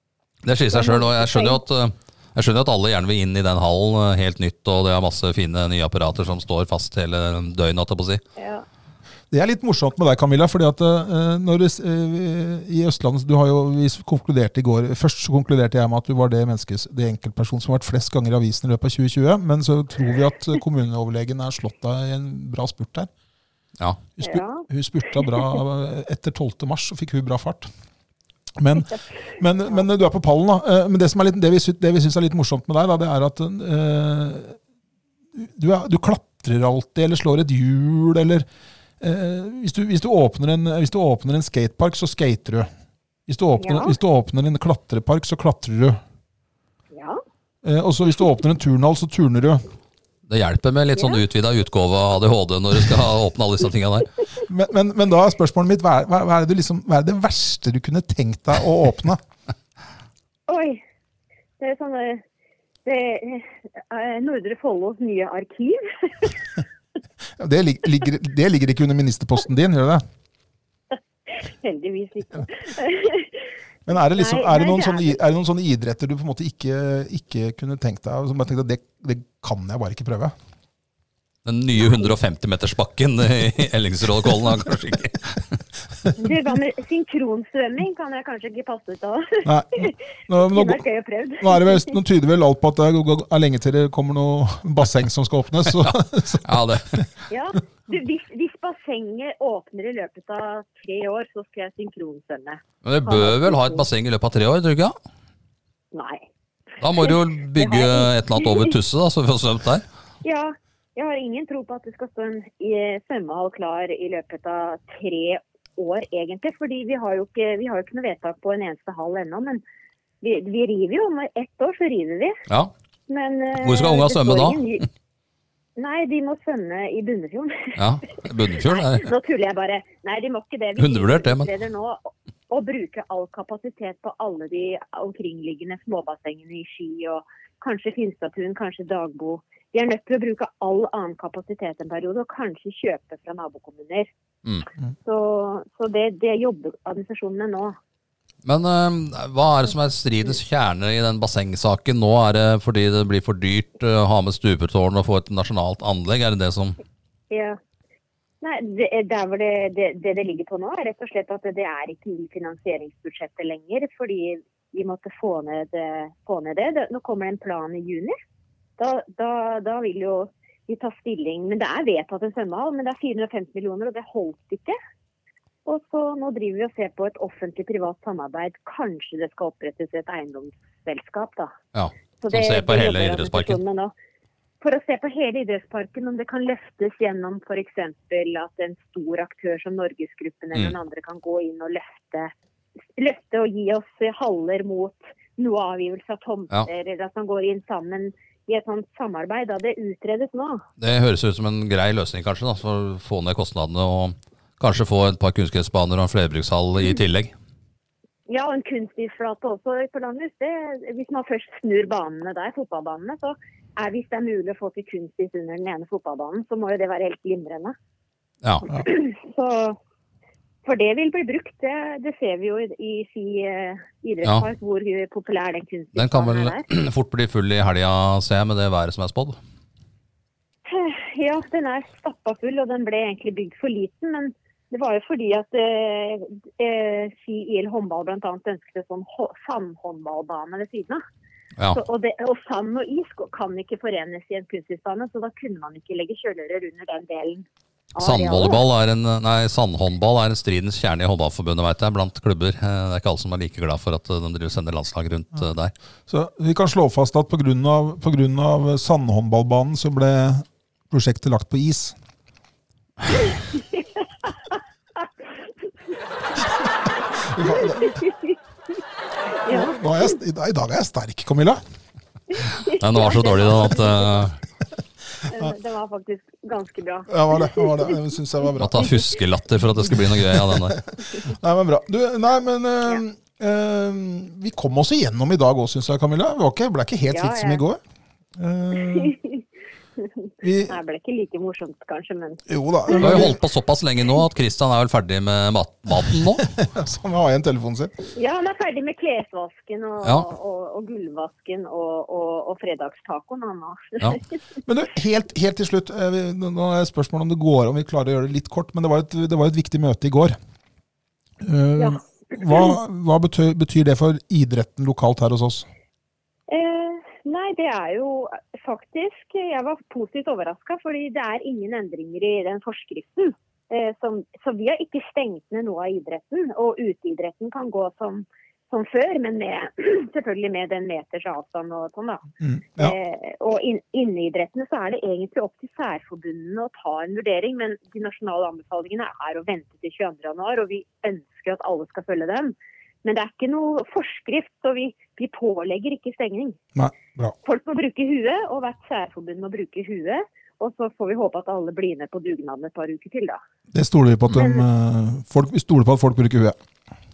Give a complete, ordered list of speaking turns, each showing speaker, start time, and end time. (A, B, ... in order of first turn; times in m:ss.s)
0:00.4-0:08.2 A
0:00.7-0:01.6 B
0:08.4-0:08.6 B
0:09.3-0:23.1 C
0:24.2-0:27.7 C
0:24.2-0:24.6 B
0:28.6-0:34.6 C
0:35.3-0:38.4 C
0:39.0-0:42.7 C
0:43.3-0:46.0 C
0:43.6-0:44.0 B
0:46.9-0:47.2 B
0:47.6-0:49.6 C
0:50.3-0:54.1 A
0:54.5-0:59.2 C
1:00.5-1:00.8 B
1:01.6-1:02.2 B
1:02.8-1:06.4 B
1:07.4-1:10.0 C
1:10.9-1:15.2 B
1:13.9-1:20.3 C
1:21.4-1:25.5 A
1:26.2-1:32.0 B
1:29.4-1:30.8 C
1:31.4-1:37.0 C
1:35.8-1:37.0 A
1:37.3-1:43.8 B
1:42.8-1:44.9 A
1:45.9-1:46.3 B
1:46.8-1:49.8 A
1:47.0-1:48.7 B
1:50.2-1:59.6 B
2:00.2-2:02.4 B
2:02.5-2:02.7 A
2:03.1-2:04.9 B
2:03.6-2:04.6 A
2:05.8-2:07.8 B
2:07.8-2:09.1 A
2:08.5-2:24.1 B
2:10.8-2:11.5 A
2:25.0-2:27.8 B
2:28.4-2:36.8 A
2:37.3-2:37.6 B
2:38.4-2:48.1 B
2:48.8-2:54.8 B
2:55.6-3:01.5 B
3:01.7-3:03.6 A
3:02.2-3:03.9 B
3:04.6-3:12.3 B
3:12.9-3:20.6 B
3:20.8-3:27.3 A
3:28.3-3:37.7 B
3:38.6-3:39.8 B
3:40.6-3:46.6 B
3:46.0-3:49.4 A
3:50.6-4:01.0 B
4:01.7-4:08.6 B
4:08.0-4:15.7 A
4:16.1-4:22.0 C
4:27.2-4:28.0 C
4:27.4-4:28.4 B
4:29.4-4:30.1 B
4:29.5-4:31.6 C
4:32.3-4:34.2 B
4:32.6-4:34.4 A
4:35.2-4:38.0 B
4:37.1-4:39.0 C
4:38.6-4:40.8 A
4:39.9-4:47.8 C
4:47.1-4:47.6 B
4:48.4-4:49.2 C
4:48.8-4:49.4 B
4:50.0-4:53.3 B
4:50.4-4:50.8 C
4:52.5-4:53.4 C
4:52.9-4:56.5 A
4:56.4-4:57.9 C
4:58.1-5:04.2 B
5:00.0-5:00.3 A
5:04.6-5:10.4 C
5:11.4-5:15.7 C
5:11.8-5:12.7 B
5:16.5-5:46.6 B
5:32.4-5:33.0 C
5:46.7-5:47.3 C
5:47.4-5:53.4 B
5:53.7-5:56.6 C
5:54.3-5:54.6 B